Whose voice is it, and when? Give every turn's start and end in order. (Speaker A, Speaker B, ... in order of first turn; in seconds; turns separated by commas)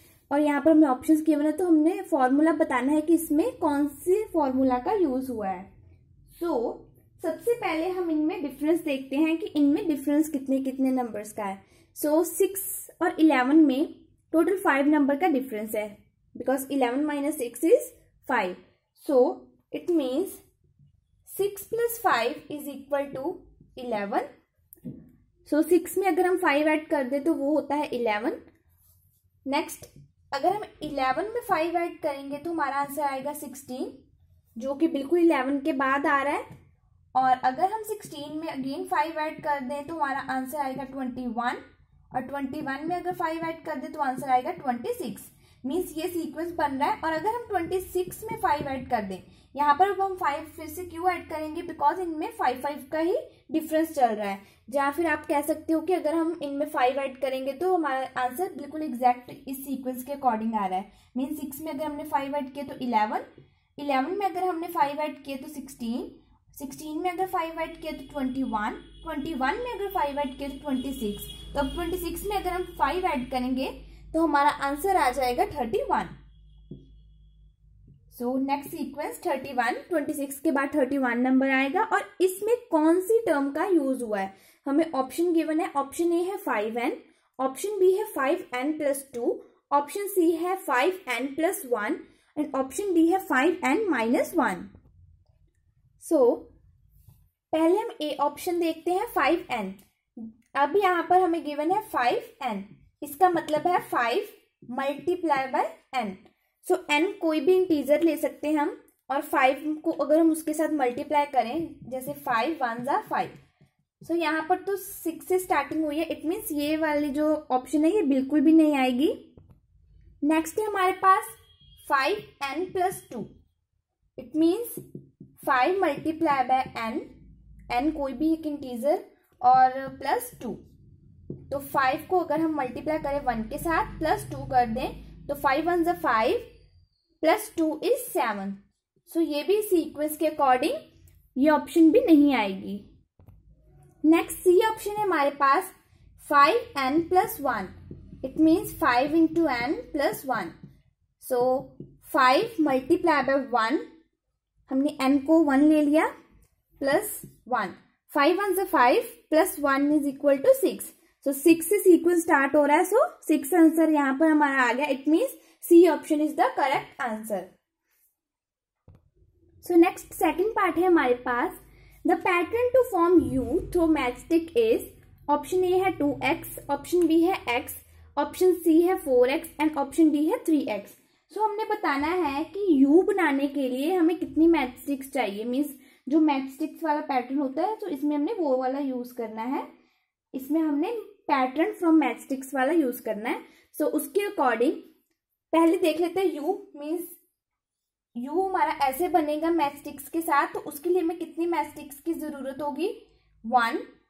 Speaker A: 0.3-5.7, Speaker A: 6.3-20.4, Speaker A: 21.3-24.3, Speaker A: 25.5-28.4, Speaker A: 29.5-33.9, Speaker A: 34.6-36.5, Speaker A: 37.1-41.6, Speaker A: 42.1-63.2, Speaker A: 63.8-76.1, Speaker A: 78.1-94.7, Speaker A: 96.0-96.5, Speaker A: 97.5-113.3, Speaker A: 114.0-119.2, Speaker A: 120.2-123.3, Speaker A: 124.2-124.8, Speaker A: 125.4-127.1, Speaker A: 127.7-130.6, Speaker A: 131.5-136.5, Speaker A: 137.2-140.8, Speaker A: 141.4-142.9, Speaker A: 144.0-150.6, Speaker A: 151.2-153.8, Speaker A: 154.7-156.1, Speaker A: 156.8-167.5, Speaker A: 169.6-189.7, Speaker A: 190.3-194.8, Speaker A: 195.5-197.2, Speaker A: 198.2-203.8